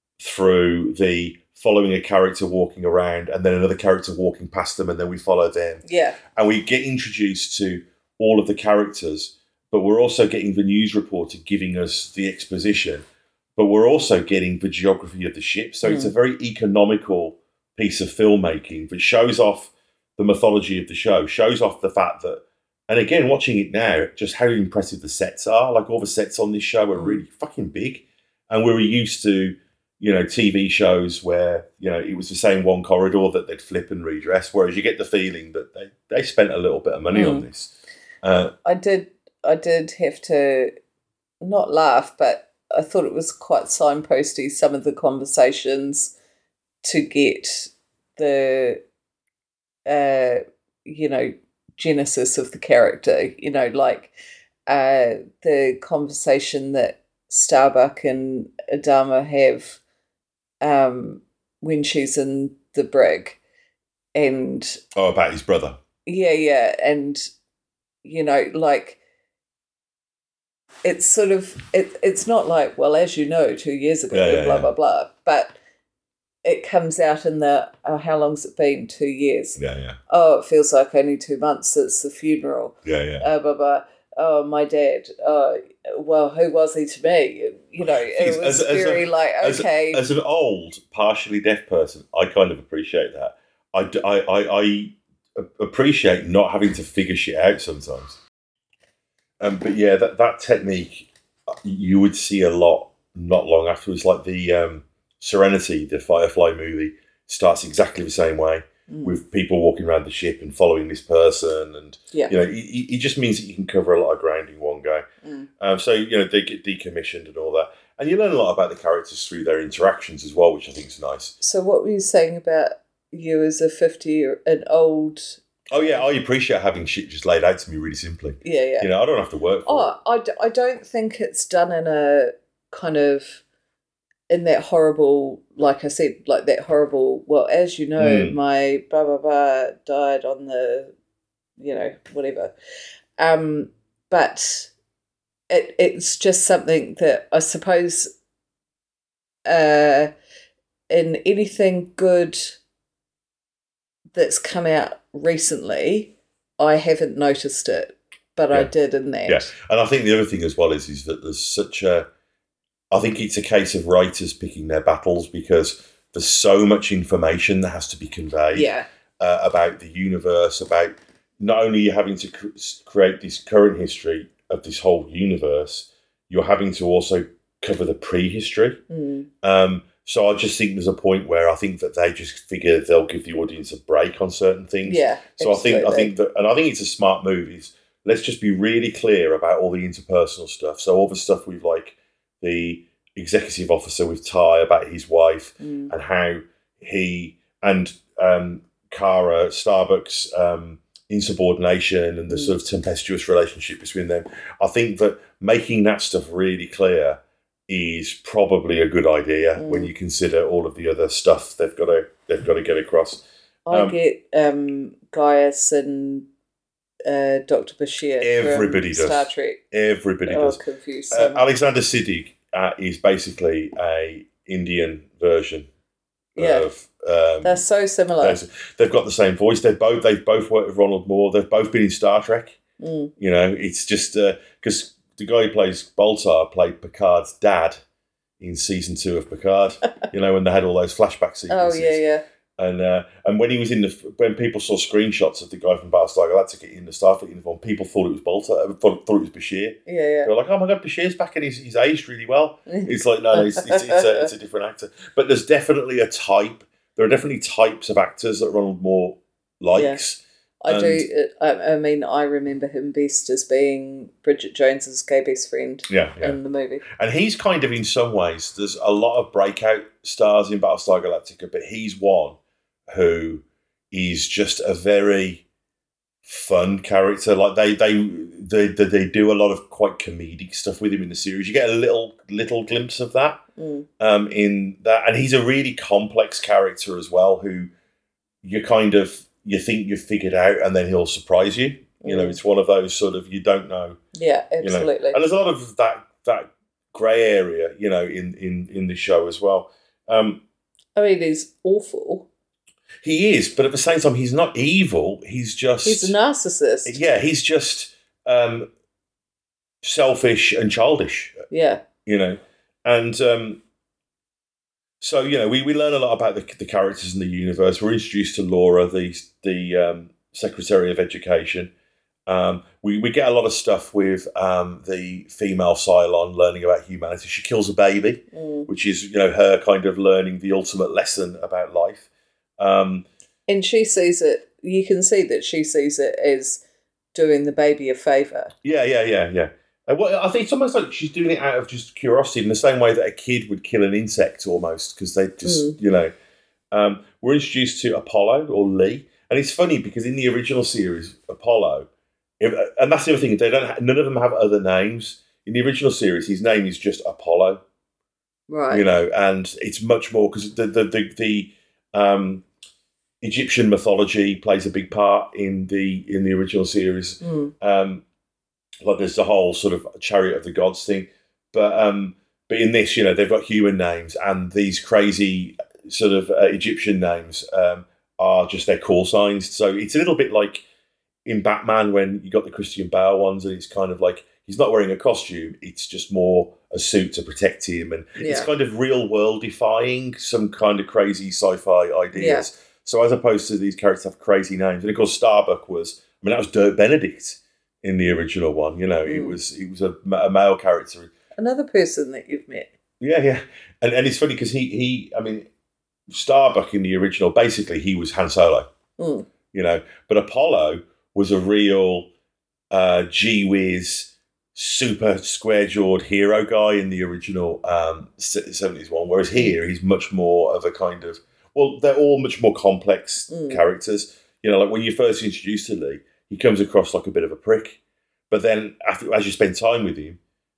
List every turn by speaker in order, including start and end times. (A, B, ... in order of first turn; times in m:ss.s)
0:00.2-0:13.0 A
0:05.8-0:06.2 B
0:13.6-0:37.7 A
0:15.8-0:16.1 B
0:27.0-0:27.2 B
0:37.1-0:37.5 B
0:38.2-0:38.5 A
0:38.6-0:40.7 B
0:41.4-0:46.1 B
0:46.8-0:48.8 B
0:49.9-0:54.1 B
0:54.7-0:59.8 B
1:00.6-1:03.4 B
1:04.2-1:04.8 B
1:05.0-1:05.8 A
1:06.1-1:07.3 B
1:08.0-1:09.0 B
1:10.8-1:15.6 B
1:14.1-1:14.7 A
1:16.4-1:30.0 B
1:19.6-1:20.0 A
1:22.8-1:23.3 A
1:27.8-1:38.2 A
1:39.4-1:55.1 A
1:48.9-1:49.2 B
1:55.6-2:01.3 A
2:01.4-2:06.1 B
2:05.7-2:09.9 A
2:08.4-2:08.9 B
2:09.7-2:13.4 B
2:14.3-2:20.9 B
2:18.0-2:18.4 A
2:21.6-2:22.5 B
2:23.2-2:24.7 B
2:25.5-2:28.1 B
2:29.5-2:30.1 B
2:30.9-2:32.6 B
2:34.2-2:39.5 B
2:39.3-2:42.1 A
2:42.9-2:58.8 A
2:48.6-2:48.9 B
2:58.9-2:59.3 B
2:59.4-3:34.0 A
3:04.8-3:06.1 B
3:15.6-3:15.9 B
3:29.6-3:29.9 B
3:33.7-3:36.3 B
3:37.0-3:39.6 B
3:38.2-3:40.6 A
3:40.3-3:41.5 B
3:41.1-3:45.7 A
3:46.4-3:46.7 B
3:46.4-3:47.6 A
3:47.4-3:48.4 B
3:48.2-3:52.6 A
3:52.8-3:53.1 B
3:53.2-3:57.8 A
3:58.4-4:02.0 A
4:01.5-4:02.2 B
4:02.6-4:21.1 A
4:09.9-4:10.3 B
4:12.7-4:14.3 B
4:19.7-4:20.0 B
4:20.6-4:26.8 B
4:25.9-4:26.4 A
4:26.9-4:35.4 A
4:36.2-4:43.4 A
4:43.6-4:43.9 B
4:44.0-4:47.7 A
4:48.4-4:54.0 A
4:52.0-4:52.4 B
4:54.1-4:55.2 B
4:54.6-5:00.4 A
5:01.0-5:02.3 B
5:03.0-5:06.2 A
5:05.8-5:07.0 B
5:06.9-5:08.7 A
5:09.8-5:11.4 A
5:11.5-5:11.8 B
5:12.0-5:13.6 A
5:15.0-5:21.7 A
5:22.3-5:32.1 A
5:28.3-5:28.7 B
5:32.6-5:33.1 A
5:33.5-5:36.6 B
5:37.1-5:38.5 B
5:38.6-5:46.1 A
5:45.4-5:45.8 B
5:46.7-5:51.9 A
5:52.4-5:57.6 A
5:58.5-5:58.9 B
5:58.7-6:02.4 A
6:03.2-6:08.0 A
6:07.2-6:07.5 B
6:08.8-6:20.6 A
6:21.2-6:41.1 A
6:28.2-6:28.5 B
6:32.1-6:32.4 B
6:39.0-6:39.4 B
6:41.4-6:42.7 B
6:43.0-6:45.5 A
6:46.1-6:48.7 A
6:49.0-6:49.3 B
6:49.5-6:52.1 A
6:52.7-7:07.8 A
7:03.3-7:03.6 B
7:08.3-7:10.2 A